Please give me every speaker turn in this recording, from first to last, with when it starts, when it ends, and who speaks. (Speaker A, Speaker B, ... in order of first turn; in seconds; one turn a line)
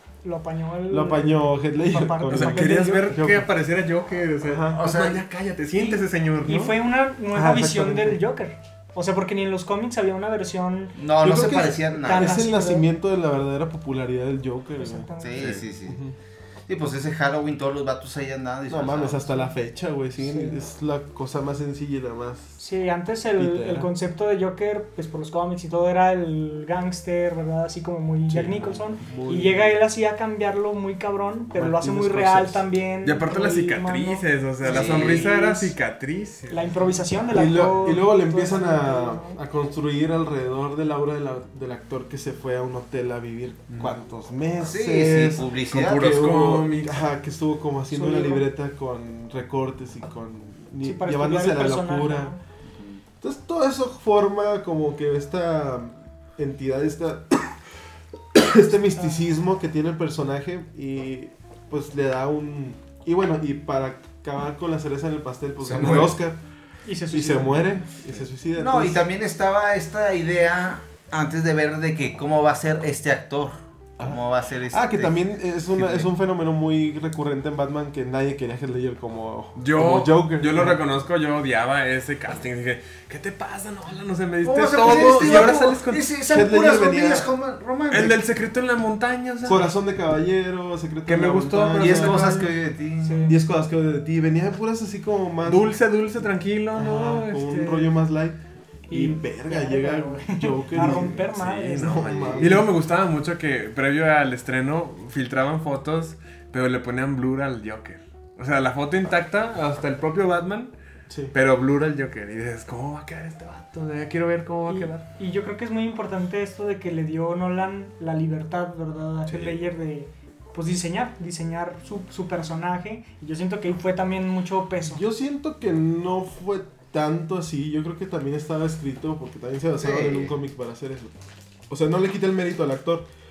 Speaker A: 0.2-3.2
Speaker B: 0.9-3.5
Speaker C: 2.3-6.8
Speaker B: 4.4-4.8
Speaker D: 4.7-5.2
Speaker A: 6.5-11.0
Speaker B: 7.3-8.2
Speaker D: 11.0-12.4
Speaker B: 11.2-15.1
Speaker A: 12.0-12.9
Speaker A: 14.8-15.5
Speaker D: 15.2-16.0
Speaker C: 15.4-15.6
Speaker B: 15.9-16.1
Speaker D: 16.7-19.4
Speaker B: 18.7-22.6
Speaker A: 20.2-20.6
Speaker A: 22.6-35.8
Speaker B: 23.4-23.9
Speaker B: 28.3-29.8
Speaker B: 31.5-32.6
Speaker C: 33.0-37.0
Speaker D: 34.6-35.3
Speaker A: 36.5-39.4
Speaker B: 37.3-52.3
Speaker D: 44.6-46.2
Speaker C: 45.7-47.0
Speaker A: 47.9-48.5
Speaker A: 50.8-52.4
Speaker D: 52.7-53.0
Speaker B: 53.2-57.6
Speaker B: 58.3-66.4
Speaker A: 59.0-59.3
Speaker D: 65.7-66.1
Speaker C: 65.7-66.2
Speaker A: 66.9-67.7
Speaker B: 67.1-69.0
Speaker D: 68.5-75.1
Speaker B: 74.0-80.8
Speaker C: 79.6-86.1
Speaker D: 84.4-88.2
Speaker B: 84.8-85.5
Speaker B: 86.3-87.3
Speaker C: 87.9-89.7
Speaker B: 89.5-92.3
Speaker C: 91.1-92.5
Speaker D: 91.8-93.3
Speaker A: 93.0-93.4
Speaker B: 93.3-95.7
Speaker C: 95.5-98.0
Speaker B: 96.7-98.4
Speaker A: 98.9-102.6
Speaker B: 98.9-102.7
Speaker C: 100.8-110.7
Speaker B: 111.1-111.3
Speaker C: 111.3-115.0
Speaker A: 114.7-125.0
Speaker C: 119.3-119.5
Speaker B: 124.8-131.1
Speaker D: 129.8-130.3
Speaker B: 131.7-133.1